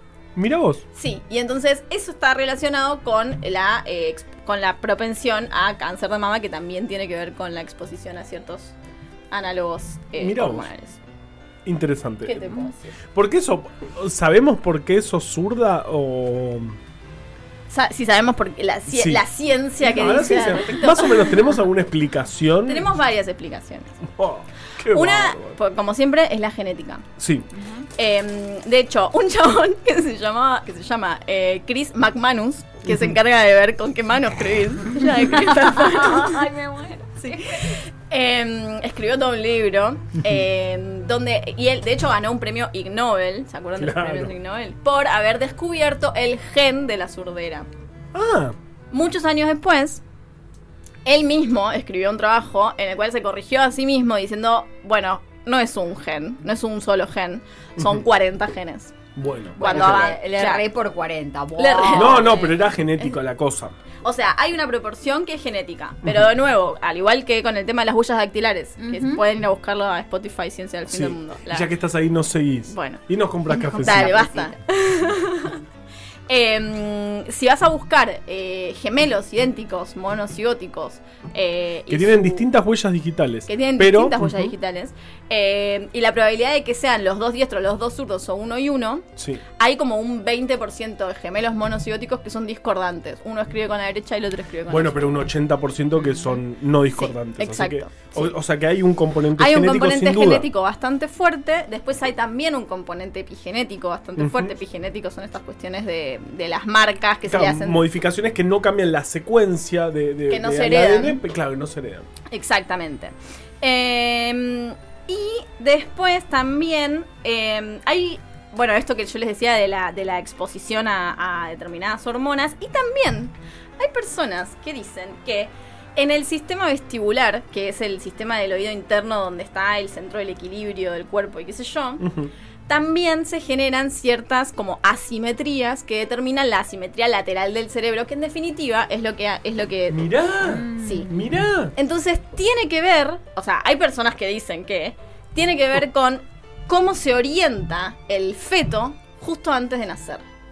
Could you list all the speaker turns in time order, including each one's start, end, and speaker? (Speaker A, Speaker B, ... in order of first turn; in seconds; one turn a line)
Speaker A: 0.4-0.8
Speaker B: 0.9-8.7
Speaker B: 9.3-11.0
Speaker A: 10.2-10.7
Speaker A: 11.6-12.5
Speaker B: 12.2-12.9
Speaker A: 13.1-16.8
Speaker B: 17.7-21.5
Speaker A: 18.9-19.2
Speaker A: 19.8-22.9
Speaker B: 22.6-24.0
Speaker A: 24.1-25.6
Speaker B: 24.9-27.1
Speaker A: 27.2-27.5
Speaker C: 27.5-27.9
Speaker B: 28.0-36.5
Speaker C: 35.3-37.7
Speaker B: 37.1-47.7
Speaker A: 43.8-44.3
Speaker A: 48.1-48.6
Speaker B: 48.9-50.0
Speaker B: 51.0-58.9
Speaker A: 57.8-58.0
Speaker A: 59.1-60.2
Speaker C: 59.6-62.5
Speaker B: 59.6-60.6
Speaker B: 61.6-63.1
Speaker A: 61.9-63.8
Speaker B: 64.0-71.7
Speaker A: 66.0-66.3
Speaker C: 68.8-69.2
Speaker A: 70.9-74.3
Speaker B: 72.7-75.6
Speaker C: 73.8-74.5
Speaker B: 76.3-82.5
Speaker A: 81.9-84.5
Speaker B: 83.5-89.1
Speaker A: 89.2-89.4
Speaker B: 89.6-95.2
Speaker A: 94.7-100.5
Speaker B: 96.9-98.3
Speaker B: 99.4-107.8
Speaker A: 104.2-104.5
Speaker A: 107.3-112.1
Speaker B: 110.3-111.2
Speaker B: 112.3-132.1
Speaker A: 132.0-132.3
Speaker B: 132.7-140.0
Speaker A: 139.9-141.7
Speaker C: 140.6-141.0
Speaker B: 140.8-141.1
Speaker B: 141.8-150.2